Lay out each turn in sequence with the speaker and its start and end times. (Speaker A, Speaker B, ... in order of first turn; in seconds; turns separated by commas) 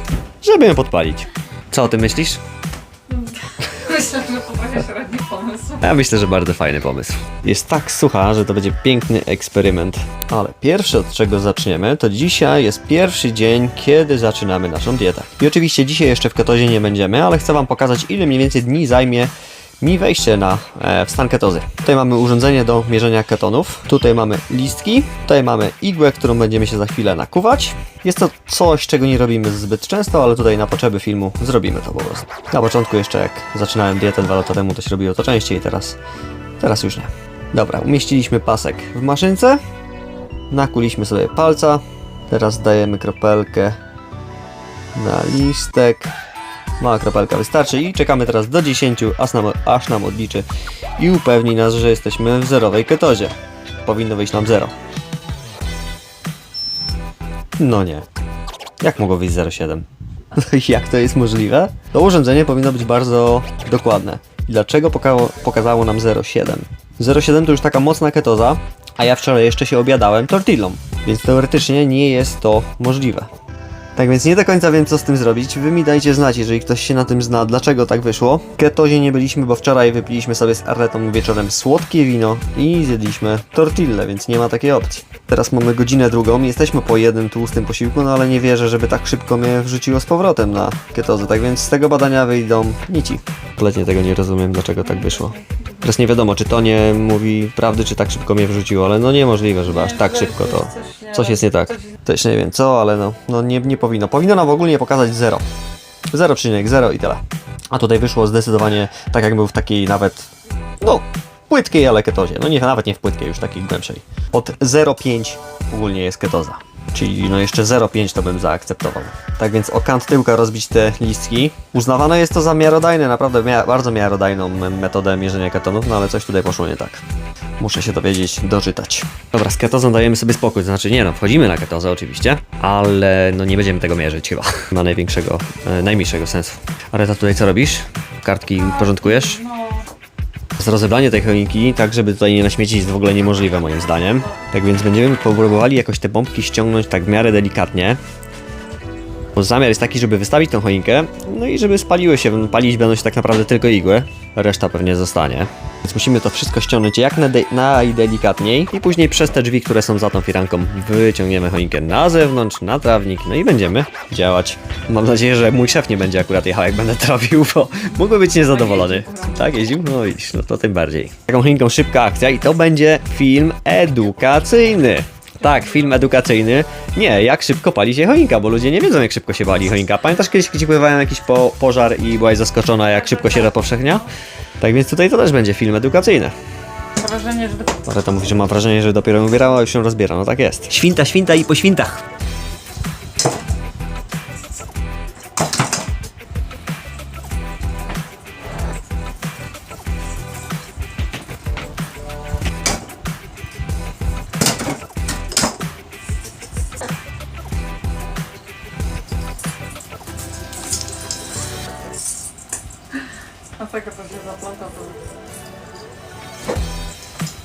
Speaker A: 0.4-2.4, Speaker B: 3.1-5.8, Speaker A: 5.8-36.0, Speaker A: 36.6-39.6, Speaker A: 40.5-43.8, Speaker A: 44.9-46.1, Speaker A: 46.8-50.5, Speaker A: 51.0-54.7, Speaker A: 57.6-58.1, Speaker A: 58.8-73.3, Speaker A: 74.0-105.5, Speaker B: 95.3-95.7, Speaker B: 99.8-101.3, Speaker A: 106.1-127.0, Speaker A: 127.6-139.5, Speaker B: 138.8-139.9, Speaker A: 140.6-148.0, Speaker A: 149.3-184.1, Speaker B: 168.6-169.3, Speaker A: 184.6-186.3, Speaker B: 186.9-187.7, Speaker A: 187.8-192.0, Speaker B: 213.6-215.0